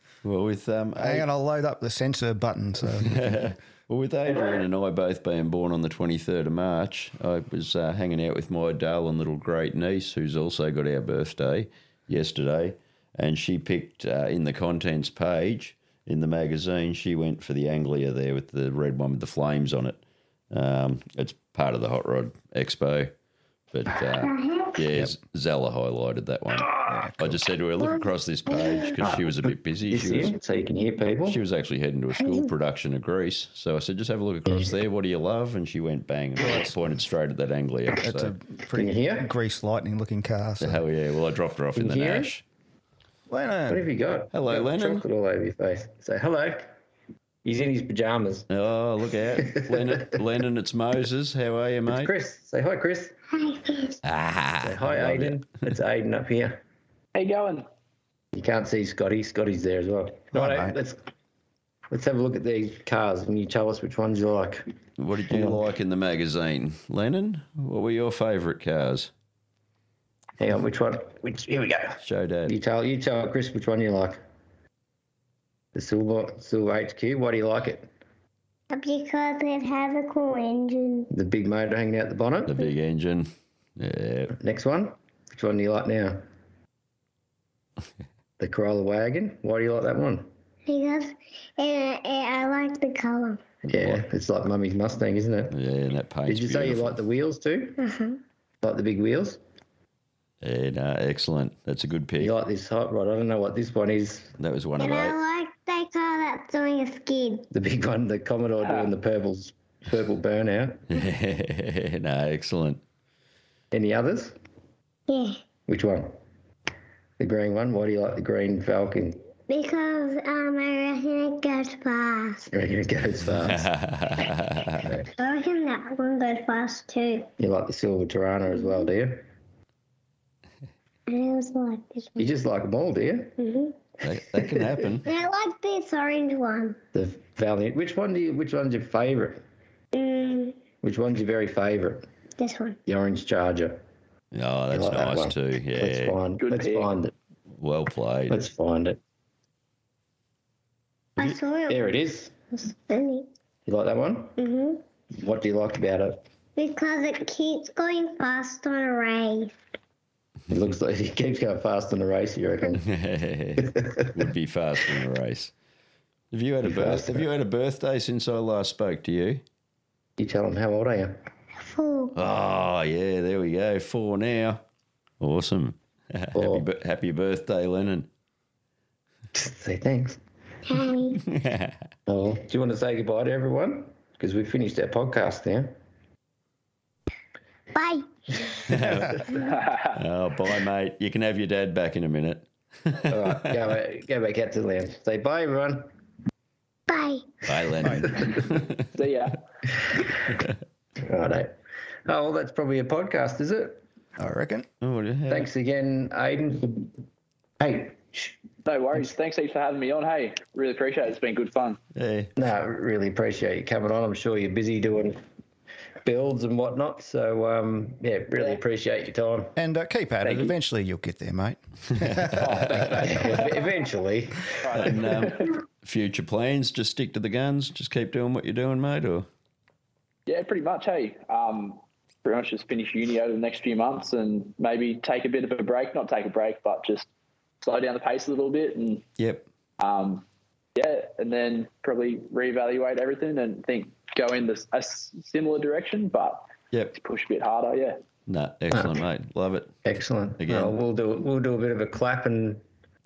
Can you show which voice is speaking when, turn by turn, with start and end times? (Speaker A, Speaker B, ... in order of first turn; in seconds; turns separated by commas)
Speaker A: 0.2-1.3, Speaker B: 1.0-3.4, Speaker A: 3.0-23.1, Speaker A: 23.7-30.4, Speaker C: 24.1-24.9, Speaker B: 26.9-27.4, Speaker C: 28.5-28.9, Speaker D: 29.9-31.4, Speaker A: 31.2-38.3, Speaker C: 32.2-32.5, Speaker B: 36.4-36.7, Speaker B: 38.0-40.8, Speaker D: 38.7-39.3, Speaker A: 40.6-42.4, Speaker D: 41.8-42.3, Speaker B: 43.3-43.8, Speaker D: 43.7-46.7, Speaker A: 44.3-45.0, Speaker D: 47.4-48.5, Speaker A: 48.5-52.1, Speaker D: 49.4-50.2, Speaker D: 51.9-53.1, Speaker C: 53.3-54.0, Speaker A: 54.0-55.4, Speaker D: 54.6-56.6, Speaker E: 57.1-57.7, Speaker D: 58.3-61.0, Speaker B: 60.3-60.7, Speaker D: 61.9-64.7, Speaker A: 65.0-69.1, Speaker D: 65.3-65.6, Speaker D: 70.4-74.2, Speaker A: 72.0-72.5, Speaker D: 75.7-77.9, Speaker C: 78.7-81.1, Speaker D: 81.1-82.6, Speaker A: 82.5-84.3, Speaker D: 84.3-86.2, Speaker D: 88.4-90.3, Speaker C: 90.7-93.4, Speaker A: 93.7-94.0, Speaker D: 93.7-95.5, Speaker A: 95.5-97.0, Speaker D: 96.2-97.8, Speaker C: 97.8-98.2, Speaker D: 98.6-99.4, Speaker A: 100.4-102.3, Speaker D: 102.2-104.3, Speaker A: 104.4-105.2, Speaker C: 104.8-107.5, Speaker D: 107.5-110.8, Speaker E: 108.6-108.9, Speaker A: 110.9-112.8, Speaker D: 113.7-114.3, Speaker C: 115.1-115.4, Speaker D: 115.7-116.2, Speaker D: 117.2-119.2, Speaker C: 119.5-122.5, Speaker D: 122.5-123.7, Speaker A: 123.4-124.9, Speaker C: 125.2-127.3, Speaker D: 127.4-129.3, Speaker C: 128.5-128.8, Speaker C: 131.1-132.3, Speaker D: 132.2-133.3, Speaker C: 133.4-133.8, Speaker A: 134.0-135.1, Speaker D: 134.3-134.8, Speaker C: 135.0-136.8, Speaker D: 136.9-139.4, Speaker C: 139.9-140.6, Speaker D: 140.8-142.1, Speaker C: 142.4-142.8, Speaker D: 142.9-143.8, Speaker A: 144.3-146.2, Speaker D: 144.7-147.1, Speaker E: 146.4-146.9, Speaker A: 147.6-148.4, Speaker D: 148.3-149.0, Speaker C: 151.2-151.9, Speaker D: 151.7-152.3, Speaker C: 152.5-153.3, Speaker D: 153.7-154.4, Speaker C: 154.4-154.8, Speaker D: 155.1-156.2, Speaker C: 156.6-159.5, Speaker D: 160.5-162.8, Speaker A: 162.7-165.5, Speaker D: 163.6-164.2, Speaker A: 166.3-169.4, Speaker D: 166.6-167.3, Speaker D: 170.2-171.2, Speaker C: 171.6-172.2, Speaker A: 172.2-174.6, Speaker A: 175.2-178.1, Speaker D: 176.3-176.7, Speaker D: 179.3-180.2, Speaker C: 180.7-181.2, Speaker A: 181.2-181.8, Speaker D: 182.1-185.7, Speaker C: 187.7-188.6, Speaker A: 188.7-189.2, Speaker B: 188.8-189.1, Speaker E: 189.3-190.0, Speaker A: 189.9-193.3, Speaker D: 193.1-195.9, Speaker C: 196.9-197.4, Speaker A: 197.5-198.9, Speaker B: 197.8-198.2, Speaker E: 198.9-199.4, Speaker D: 201.0-201.5, Speaker D: 202.1-203.8, Speaker B: 204.2-204.7, Speaker A: 204.8-205.5, Speaker D: 205.3-206.9, Speaker D: 207.6-208.3, Speaker E: 208.7-211.8, Speaker A: 211.9-212.3, Speaker D: 212.3-215.2, Speaker D: 216.0-219.6, Speaker B: 219.6-223.1, Speaker E: 220.2-220.5, Speaker E: 222.3-223.7, Speaker D: 223.1-224.9, Speaker E: 224.6-225.4, Speaker A: 224.7-229.3, Speaker E: 230.3-237.1, Speaker E: 237.6-239.1, Speaker A: 239.2-239.5, Speaker E: 239.8-240.2, Speaker E: 240.8-248.0, Speaker A: 248.3-249.8, Speaker D: 249.8-252.6, Speaker A: 250.4-250.8